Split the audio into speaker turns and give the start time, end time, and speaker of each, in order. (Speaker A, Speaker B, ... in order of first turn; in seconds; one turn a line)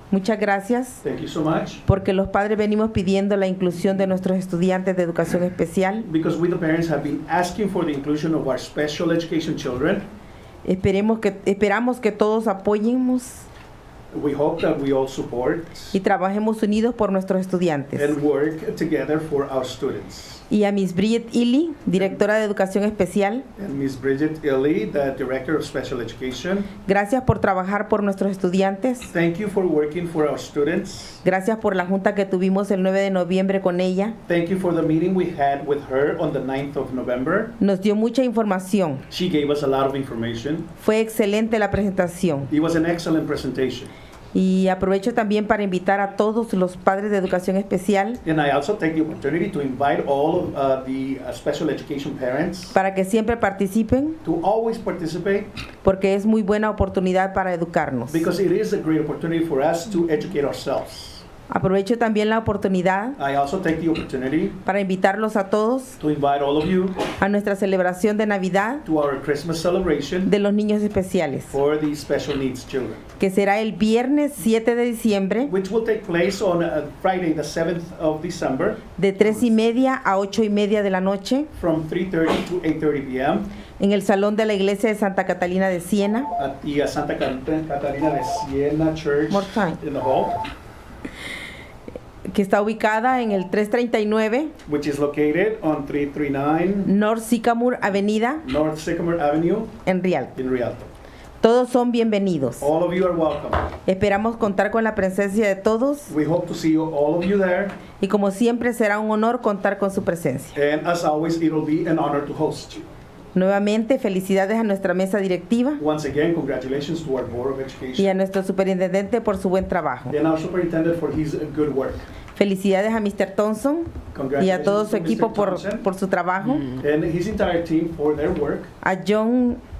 Speaker A: 0.1-1.0
Speaker B: 1.0-1.8
Speaker A: 1.9-6.1
Speaker B: 6.0-10.1
Speaker A: 10.7-13.4
Speaker B: 14.1-15.9
Speaker A: 15.9-18.1
Speaker B: 18.0-20.4
Speaker A: 20.5-23.5
Speaker B: 23.6-26.7
Speaker A: 26.9-29.1
Speaker B: 29.1-31.2
Speaker A: 31.2-34.2
Speaker B: 34.3-37.5
Speaker A: 37.6-39.0
Speaker B: 39.1-40.7
Speaker A: 40.8-42.5
Speaker B: 42.5-43.9
Speaker A: 44.3-48.2
Speaker B: 48.2-52.8
Speaker A: 52.7-54.2
Speaker B: 54.2-55.5
Speaker A: 55.8-58.3
Speaker B: 58.1-61.2
Speaker A: 61.5-63.2
Speaker B: 63.2-64.6
Speaker A: 64.6-66.0
Speaker B: 66.0-67.0
Speaker A: 67.2-68.8
Speaker B: 68.8-70.3
Speaker A: 70.2-71.5
Speaker B: 71.5-73.0
Speaker A: 73.2-75.5
Speaker B: 75.5-78.8
Speaker A: 79.0-81.5
Speaker B: 81.6-83.5
Speaker A: 83.8-86.3
Speaker B: 86.4-90.4
Speaker A: 89.3-89.8
Speaker A: 92.3-94.5
Speaker B: 94.7-96.9
Speaker A: 96.9-98.4
Speaker B: 98.4-99.7
Speaker A: 99.8-100.3
Speaker B: 100.4-100.9
Speaker A: 101.4-102.7
Speaker B: 102.6-103.7
Speaker A: 103.8-106.1
Speaker B: 106.1-107.8
Speaker A: 108.0-110.5
Speaker B: 110.5-112.9
Speaker A: 113.3-115.8
Speaker B: 115.8-118.1
Speaker A: 118.0-120.1
Speaker B: 120.1-122.1
Speaker A: 122.3-126.7
Speaker B: 124.1-125.8
Speaker B: 126.8-128.7
Speaker A: 128.8-129.6